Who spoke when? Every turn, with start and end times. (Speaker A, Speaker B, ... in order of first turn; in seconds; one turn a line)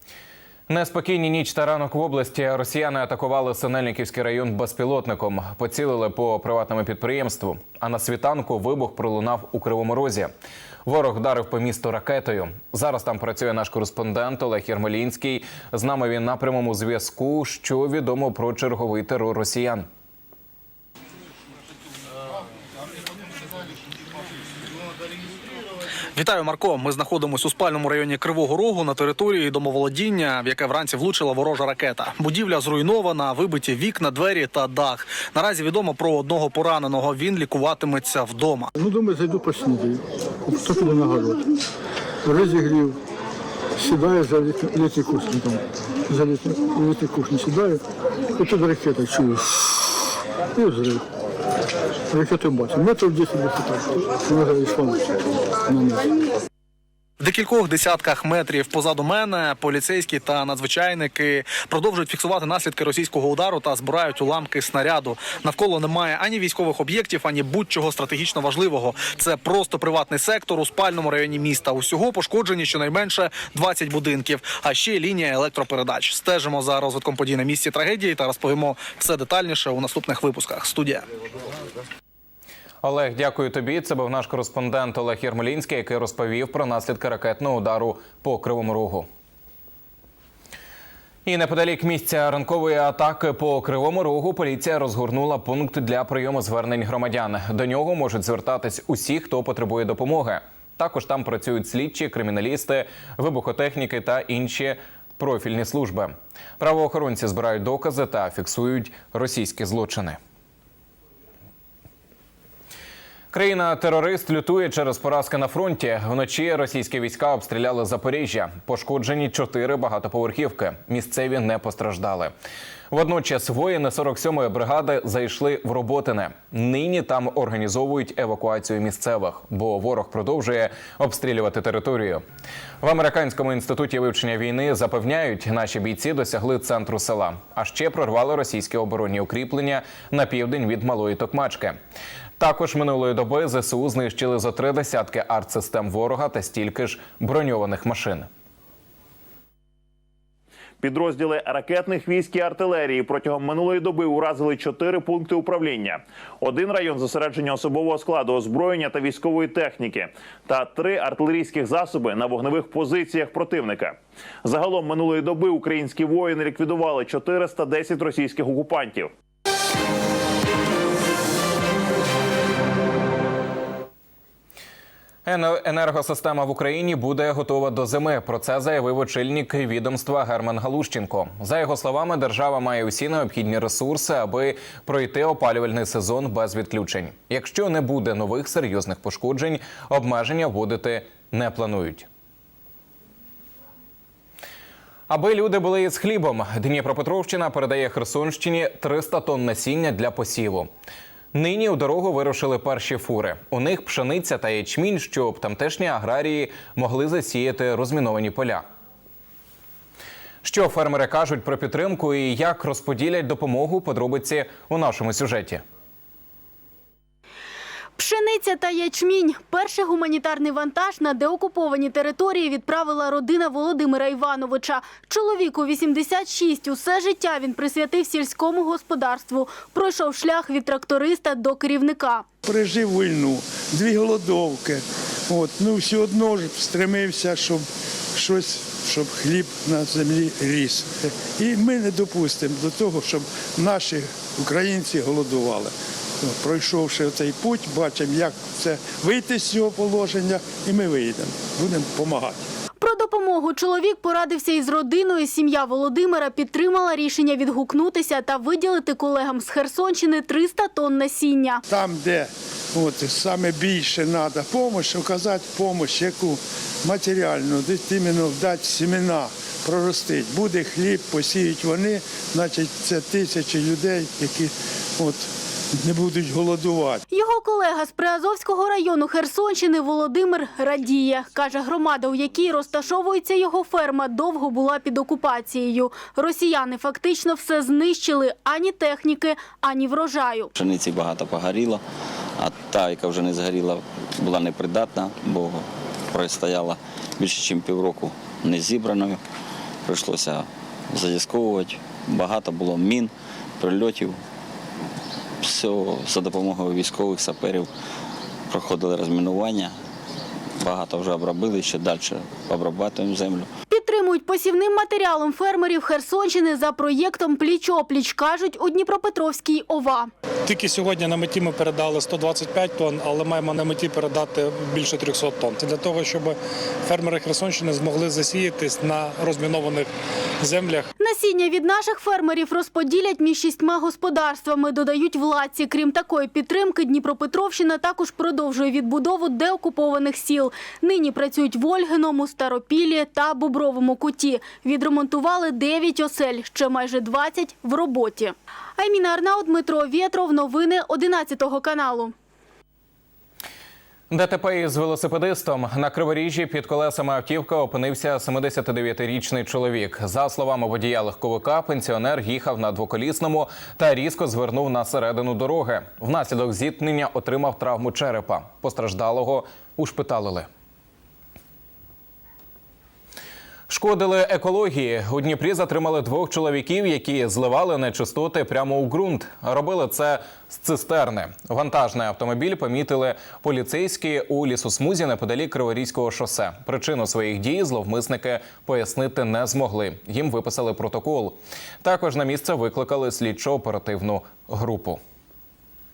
Speaker A: 0.7-10.3
Speaker A: 10.8-19.9
Speaker B: 26.2-38.7
Speaker C: 38.8-40.0
Speaker C: 40.5-41.3
Speaker C: 42.3-42.9
Speaker C: 43.8-45.6
Speaker C: 46.1-47.8
Speaker C: 48.4-49.4
Speaker C: 50.6-51.0
Speaker C: 52.1-54.9
Speaker C: 55.7-56.0
Speaker B: 57.2-81.0
Speaker A: 82.8-89.1
Speaker A: 91.3-110.2
Speaker A: 113.3-122.3
Speaker A: 122.9-132.2
Speaker A: 132.8-141.8
Speaker A: 142.4-148.3
Speaker D: 150.8-169.1
Speaker A: 175.3-192.1
Speaker A: 195.1-200.7
Speaker A: 201.3-208.6
Speaker A: 210.4-215.6
Speaker E: 218.0-232.2
Speaker F: 232.4-252.5
Speaker E: 252.8-261.6
Speaker F: 261.7-277.0
Speaker E: 277.1-290.5
Speaker G: 290.6-291.8
Speaker G: 292.4-299.2
Speaker G: 299.9-304.2
Speaker G: 305.4-307.7
Speaker G: 308.5-309.7
Speaker G: 310.6-313.5
Speaker E: 313.7-320.1
Speaker H: 320.5-329.9
Speaker H: 330.4-330.9
Speaker E: 331.0-352.1
Speaker A: 354.1-370.5
Speaker A: 373.7-395.0